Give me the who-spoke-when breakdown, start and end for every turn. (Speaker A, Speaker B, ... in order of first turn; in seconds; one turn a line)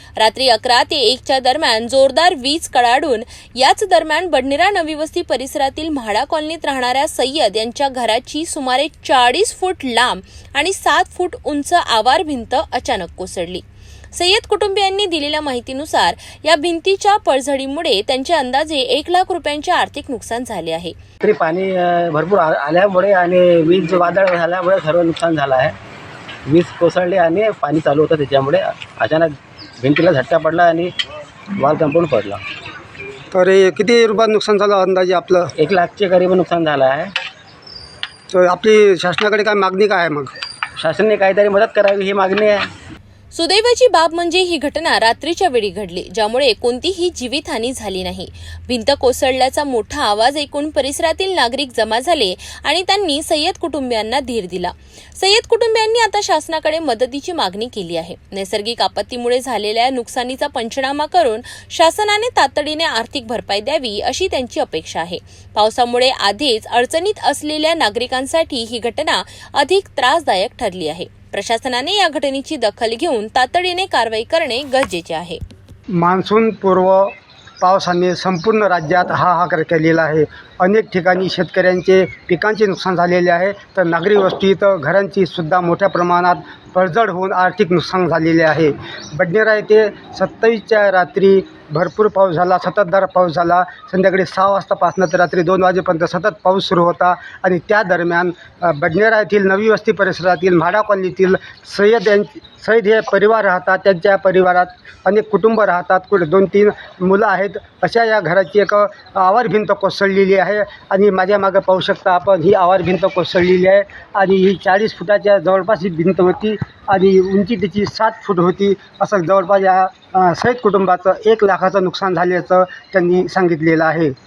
Speaker A: 0.2-13.6
Speaker A: 14.1-20.9
Speaker B: 21.2-25.8
Speaker B: 26.4-30.9
Speaker B: 31.5-32.4
Speaker C: 33.3-35.5
Speaker B: 35.5-37.1
Speaker C: 38.3-40.3
Speaker B: 40.8-42.7
Speaker A: 43.3-75.4
Speaker C: 75.9-124.1